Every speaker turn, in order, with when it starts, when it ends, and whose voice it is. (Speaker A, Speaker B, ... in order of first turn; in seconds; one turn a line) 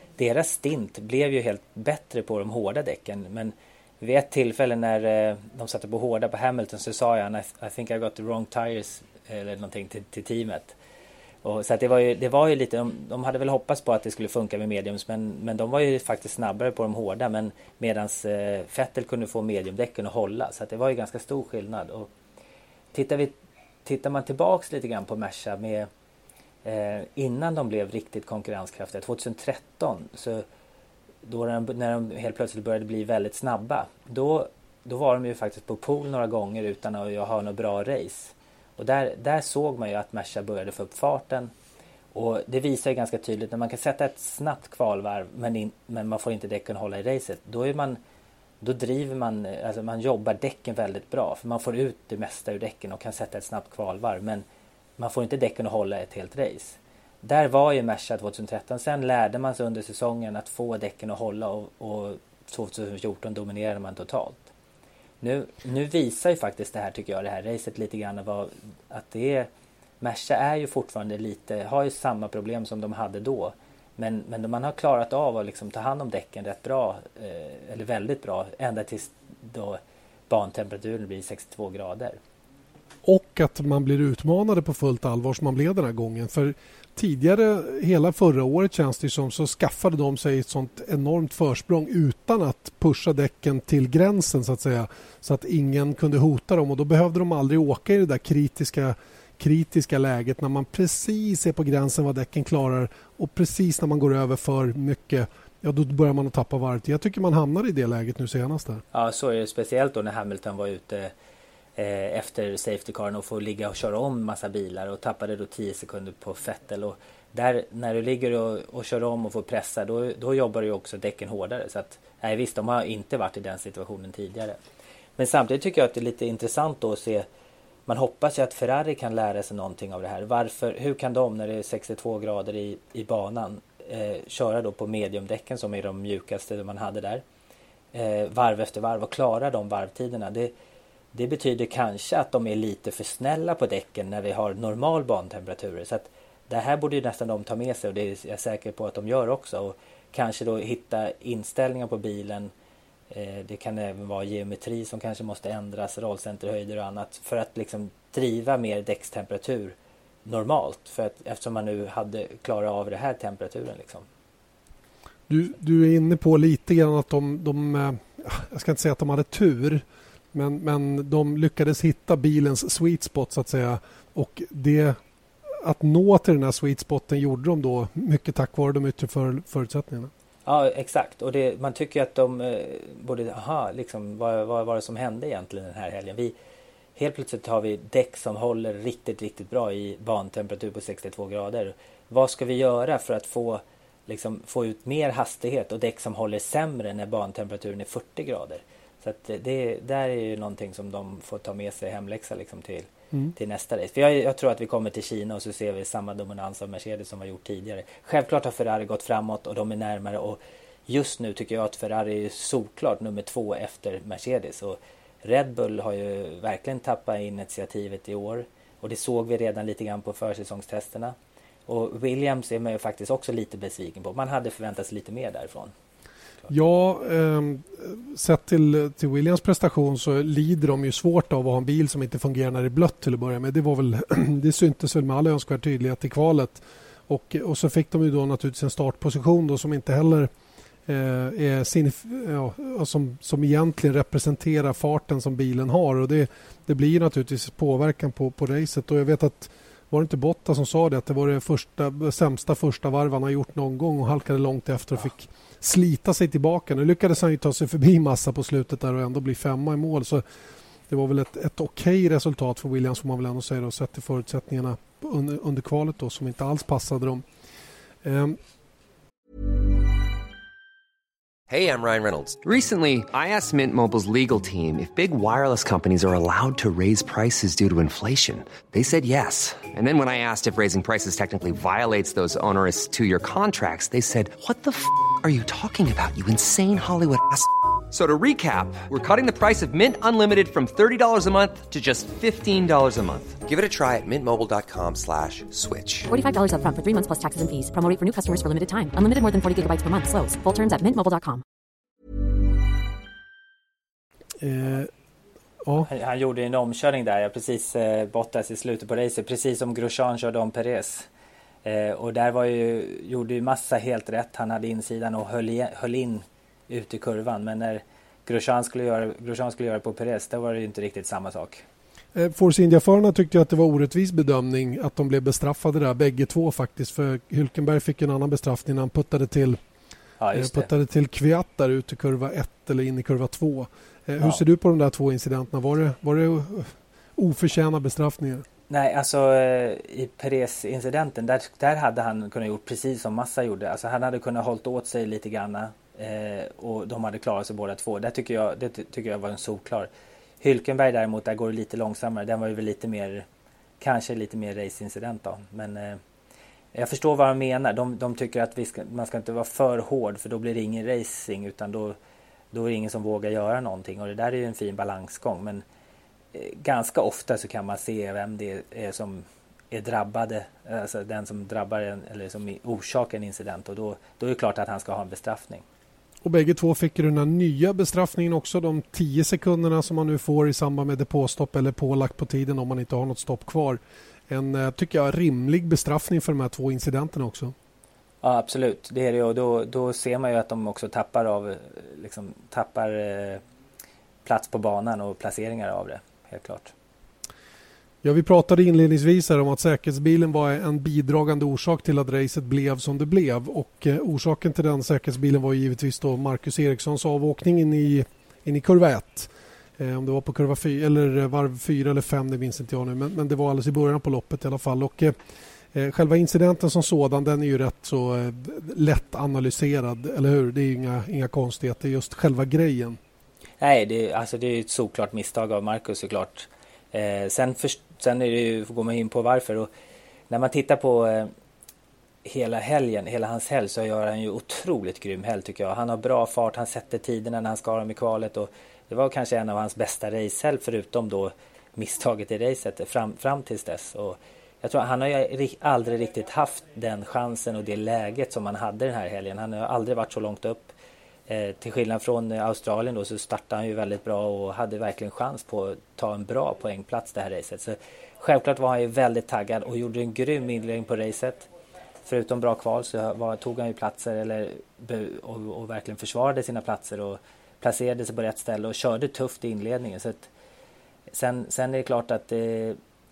Speaker A: 0.2-10.8
Speaker A: 11.4-22.1
Speaker A: 22.9-25.9
Speaker A: 26.6-30.4
Speaker A: 31.2-41.5
Speaker A: 42.1-48.0
Speaker A: 48.6-54.4
Speaker A: 55.0-64.5
Speaker A: 65.2-69.5
Speaker A: 70.0-82.2
Speaker B: 83.0-108.8
Speaker A: 108.9-111.1
Speaker A: 111.8-124.6
Speaker A: 125.2-127.2
Speaker A: 127.9-137.2
Speaker A: 137.9-140.5
Speaker A: 141.1-152.5
Speaker A: 153.1-164.1
Speaker B: 165.3-175.0
Speaker B: 175.6-180.1
Speaker A: 180.4-186.3
Speaker A: 186.9-221.1
Speaker A: 221.7-225.7
Speaker B: 226.5-240.3
Speaker B: 240.9-260.2
Speaker B: 260.9-267.2
Speaker B: 268.0-268.4
Speaker C: 271.5-296.1
Speaker D: 296.1-301.4
Speaker B: 304.4-304.9
Speaker A: 305.9-311.1
Speaker A: 311.6-321.6
Speaker B: 322.1-329.6
Speaker A: 330.2-330.7
Speaker B: 330.3-338.4
Speaker A: 338.7-349.9
Speaker A: 350.4-353.2
Speaker A: 353.8-356.0
Speaker A: 356.7-361.9
Speaker A: 362.5-365.6
Speaker A: 366.3-375.6
Speaker B: 376.2-387.5
Speaker A: 388.2-393.4
Speaker A: 394.2-396.7
Speaker B: 398.0-415.1
Speaker B: 415.7-423.0
Speaker A: 423.6-429.7
Speaker A: 430.3-431.3
Speaker A: 432.2-450.7
Speaker A: 451.3-461.5
Speaker A: 462.0-470.3
Speaker A: 471.1-472.8